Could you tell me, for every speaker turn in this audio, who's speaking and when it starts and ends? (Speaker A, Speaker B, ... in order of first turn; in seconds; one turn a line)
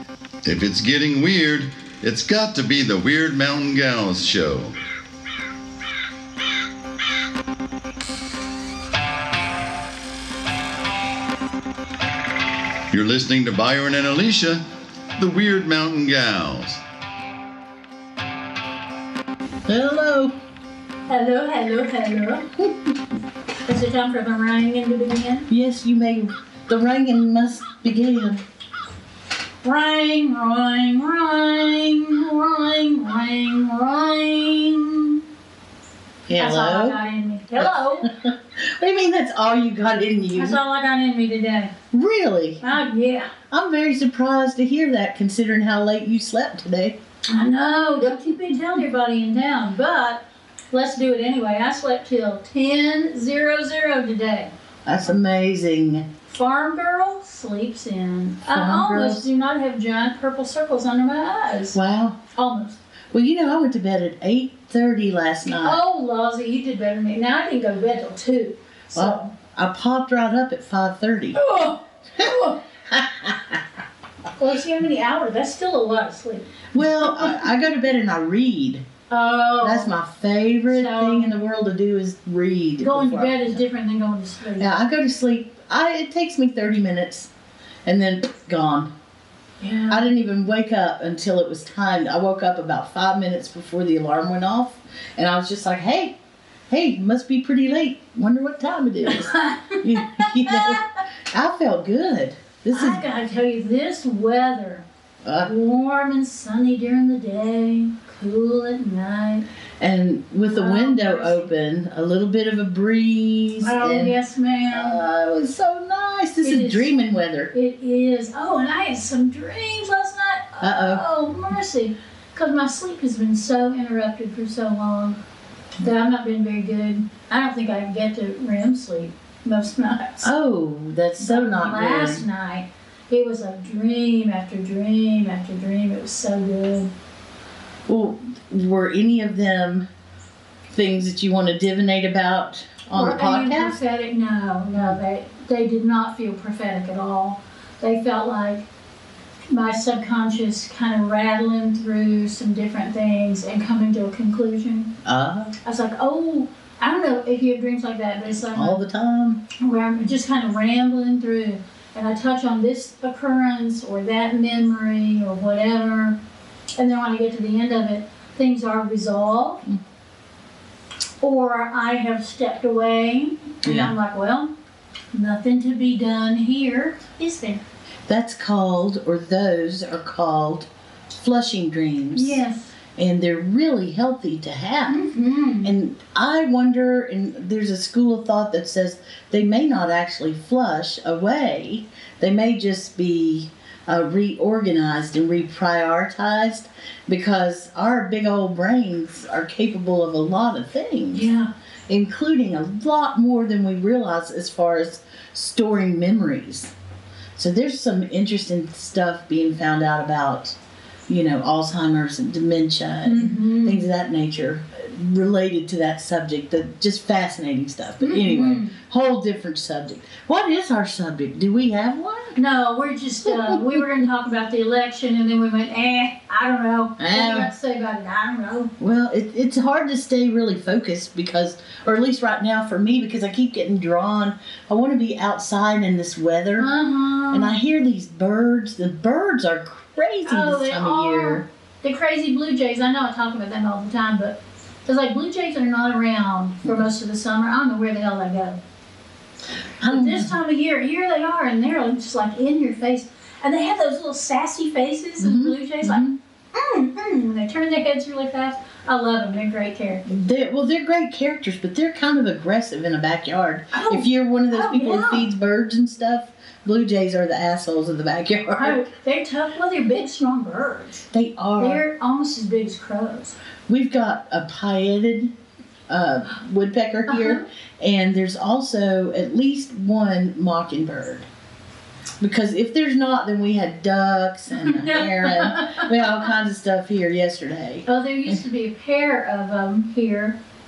Speaker A: 0.4-4.7
Speaker A: 12.9-14.6
Speaker A: 15.2-16.8
Speaker B: 19.6-20.3
Speaker C: 21.1-22.5
Speaker C: 23.6-25.5
Speaker B: 25.5-28.4
Speaker C: 29.6-35.2
Speaker B: 36.3-37.0
Speaker C: 36.4-38.1
Speaker B: 37.6-40.6
Speaker C: 40.3-41.7
Speaker B: 41.9-42.8
Speaker C: 42.6-43.3
Speaker B: 43.5-47.0
Speaker C: 47.3-54.5
Speaker B: 54.9-56.1
Speaker C: 56.3-61.8
Speaker B: 58.5-59.3
Speaker B: 61.7-62.2
Speaker C: 62.3-62.8
Speaker B: 63.1-65.8
Speaker C: 65.5-69.3
Speaker B: 68.9-71.4
Speaker C: 71.3-72.6
Speaker B: 72.9-73.6
Speaker C: 74.3-77.4
Speaker B: 76.7-78.8
Speaker C: 79.1-79.9
Speaker B: 79.6-83.6
Speaker C: 80.7-81.3
Speaker C: 82.8-84.7
Speaker B: 84.6-87.3
Speaker B: 87.8-88.9
Speaker C: 89.6-90.0
Speaker B: 89.9-96.2
Speaker B: 96.7-103.0
Speaker C: 99.1-101.0
Speaker C: 102.7-104.8
Speaker B: 105.2-105.5
Speaker C: 105.4-109.5
Speaker B: 109.8-114.2
Speaker C: 110.5-111.5
Speaker C: 113.6-115.0
Speaker B: 114.7-117.5
Speaker C: 116.4-116.9
Speaker C: 117.5-125.2
Speaker B: 120.6-121.0
Speaker C: 125.8-130.3
Speaker B: 130.2-132.2
Speaker C: 131.2-136.9
Speaker B: 137.9-139.9
Speaker B: 140.7-143.8
Speaker C: 142.9-148.7
Speaker C: 149.5-154.9
Speaker B: 155.0-155.5
Speaker C: 155.6-158.8
Speaker B: 158.5-159.4
Speaker C: 159.6-166.2
Speaker C: 166.8-169.6
Speaker C: 171.2-174.5
Speaker B: 173.6-173.9
Speaker C: 175.1-177.6
Speaker B: 178.1-182.4
Speaker C: 182.1-182.7
Speaker B: 182.9-185.0
Speaker C: 184.8-185.7
Speaker B: 185.6-201.3
Speaker C: 201.1-201.5
Speaker B: 201.9-206.7
Speaker B: 207.3-210.6
Speaker B: 211.1-222.3
Speaker C: 213.0-213.9
Speaker C: 218.0-218.7
Speaker C: 222.3-228.7
Speaker B: 227.0-227.5
Speaker B: 228.8-236.7
Speaker C: 236.6-237.5
Speaker B: 237.3-241.4
Speaker C: 240.2-248.6
Speaker B: 249.8-250.3
Speaker C: 249.8-260.1
Speaker B: 255.2-256.2
Speaker B: 260.1-268.8
Speaker C: 263.7-265.3
Speaker C: 268.5-271.1
Speaker B: 271.1-271.8
Speaker C: 271.6-273.4
Speaker B: 273.7-275.3
Speaker B: 275.9-281.3
Speaker C: 277.1-277.4
Speaker B: 282.2-287.9
Speaker C: 284.5-286.2
Speaker C: 287.9-290.4